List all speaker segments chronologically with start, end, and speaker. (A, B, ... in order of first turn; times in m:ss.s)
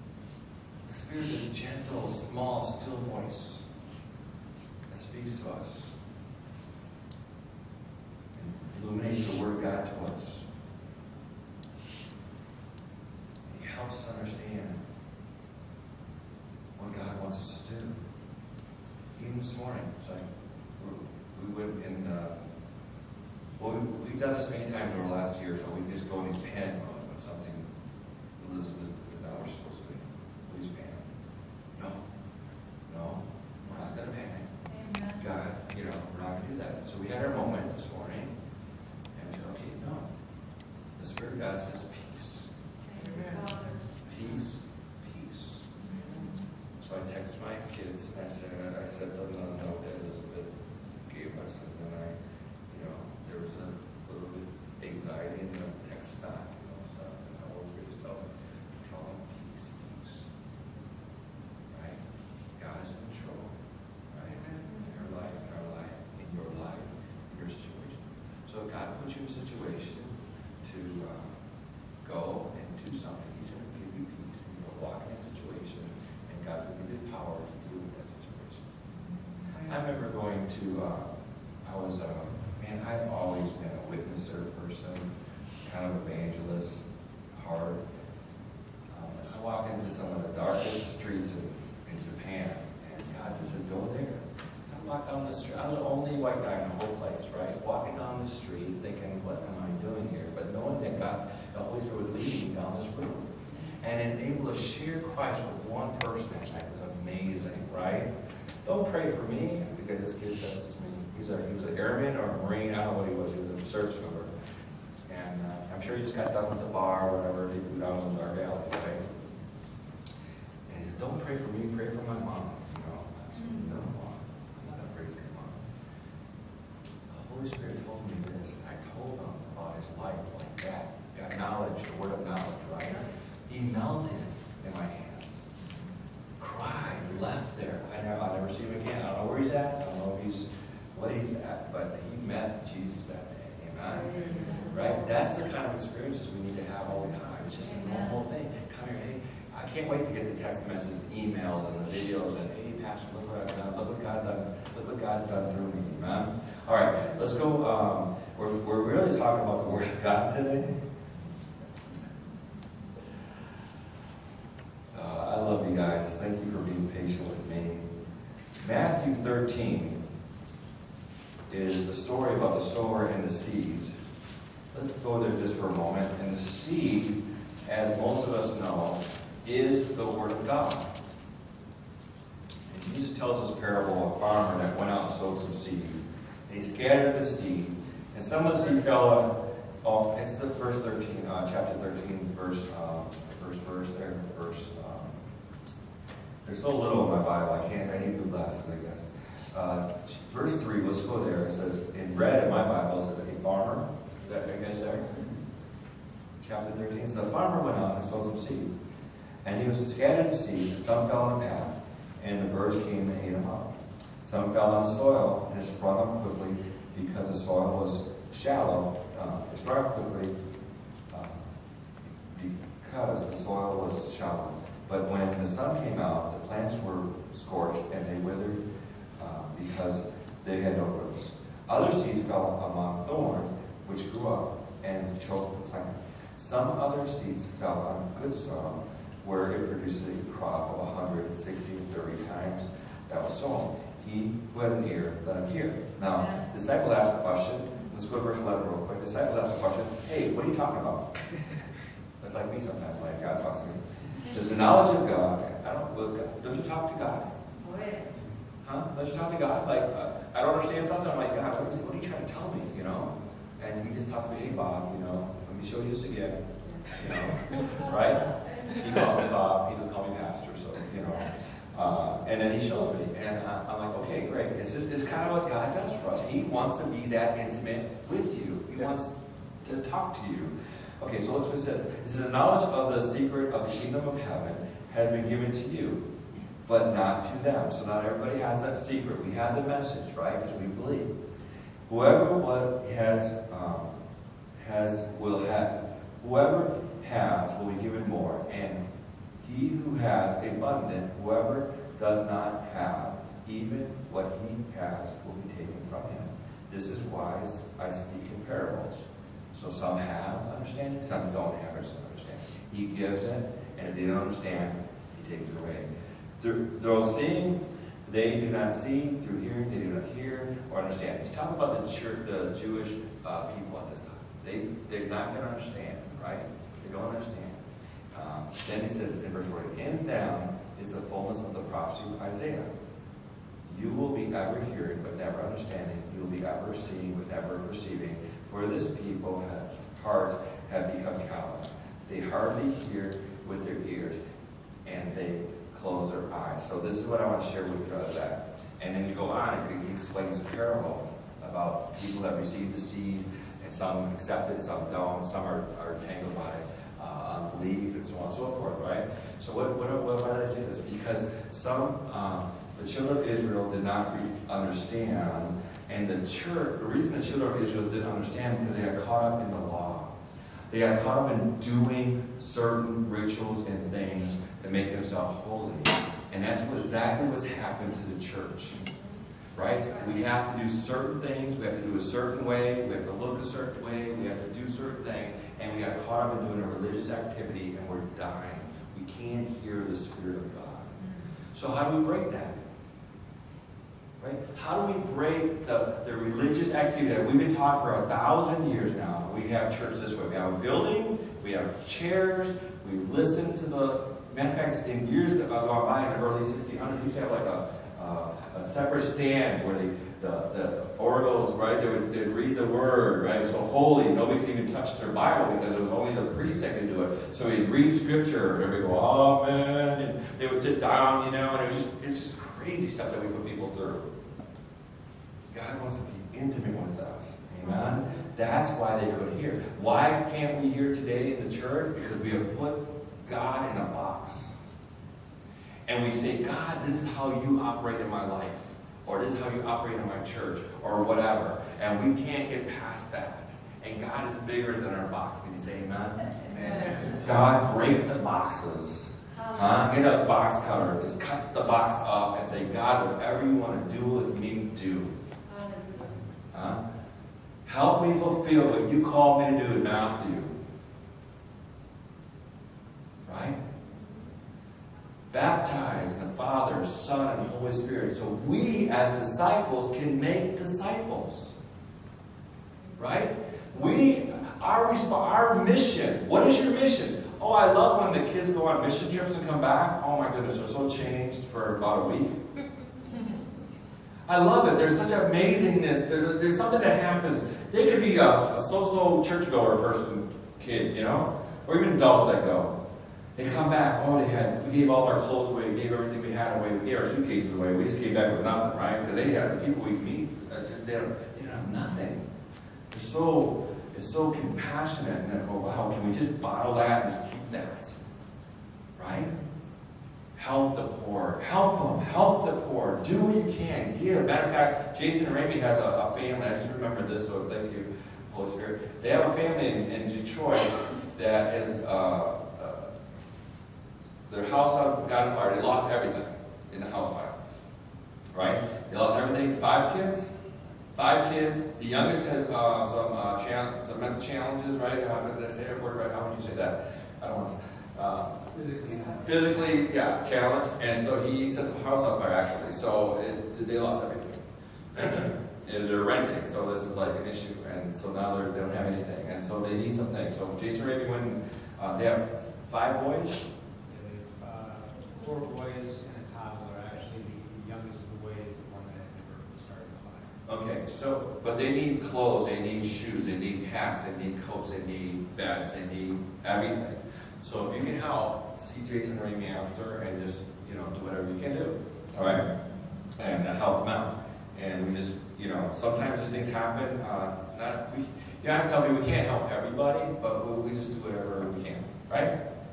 0:00.8-0:03.7 A
0:04.9-0:05.9 A
0:08.4-0:10.4 A
0:13.5-0:14.8 A
0:16.8-0:18.0 A
0:19.2-0:20.2 A
0:20.8-0:22.4 A
0:23.6-0:27.7 A
0:28.4-0:31.1 A
0:31.8-0:32.0 A
0:32.9-0:34.5 A
0:34.7-0:35.2 B
0:35.2-0:38.3 A
0:39.2-0:40.1 A
0:41.0-0:42.5 A
0:42.9-0:43.8 B
0:44.1-0:45.7 A
0:45.8-0:46.4 B
0:46.8-0:52.2 A
0:52.7-1:00.3 A
1:01.7-1:02.0 A
1:02.6-1:03.5 A
1:04.1-1:10.1 A
1:10.6-1:11.3 A
1:12.0-1:18.6 A
1:19.6-1:21.1 A
1:21.6-1:25.1 A
1:25.7-1:27.8 A
1:28.9-1:43.3 A
1:43.8-1:48.1 A
1:48.6-1:54.3 A
1:55.1-1:59.1 A
2:00.7-2:05.7 A
2:03.4-2:03.7 B
2:07.1-2:15.4 A
2:16.4-2:40.8 A
2:24.2-2:24.7 B
2:27.7-2:28.1 B
2:44.9-2:47.9 A
2:48.6-2:50.0 A
2:51.5-2:54.0 A
2:54.7-3:00.9 A
3:02.7-3:15.2 A
3:16.4-3:25.1 A
3:26.4-3:28.7 A
3:29.4-3:33.7 A
3:34.2-3:40.3 A
3:41.1-3:41.4 A
3:42.3-3:48.6 A
3:49.2-4:11.1 A
4:06.2-4:06.4 B
4:12.2-4:17.3 A
4:17.6-4:18.1 B
4:18.6-4:46.0 A
4:28.3-4:29.0 B
4:46.7-4:51.1 A
4:51.9-4:53.9 A
4:54.6-4:58.8 A
4:59.4-5:15.9 A
5:16.4-5:27.6 A
5:28.1-5:32.7 A
5:33.7-5:44.2 A
5:44.8-6:10.1 A
6:10.7-6:18.8 A
6:19.5-6:30.9 A
6:31.5-6:32.6 A
6:34.2-7:04.0 A
7:05.5-7:14.5 A
7:07.6-7:08.0 B
7:15.9-7:26.2 A
7:26.3-7:27.1 B
7:27.2-7:35.1 A
7:29.3-7:29.8 B
7:35.5-7:36.2 B
7:36.5-7:36.8 A
7:37.7-7:40.6 A
7:43.3-7:43.6 A
7:45.3-7:51.6 A
7:53.0-8:02.4 A
8:04.3-8:12.7 A
8:13.4-8:22.3 A
8:22.9-8:28.0 A
8:29.0-8:29.3 A
8:30.4-8:42.9 A
8:44.3-8:47.4 A
8:48.3-8:50.3 A
8:51.0-8:58.4 A
8:58.5-8:59.7 C
8:59.2-9:04.4 A
9:05.0-9:13.4 A
9:13.9-9:20.3 C
9:20.5-9:32.5 A
9:33.2-9:42.3 A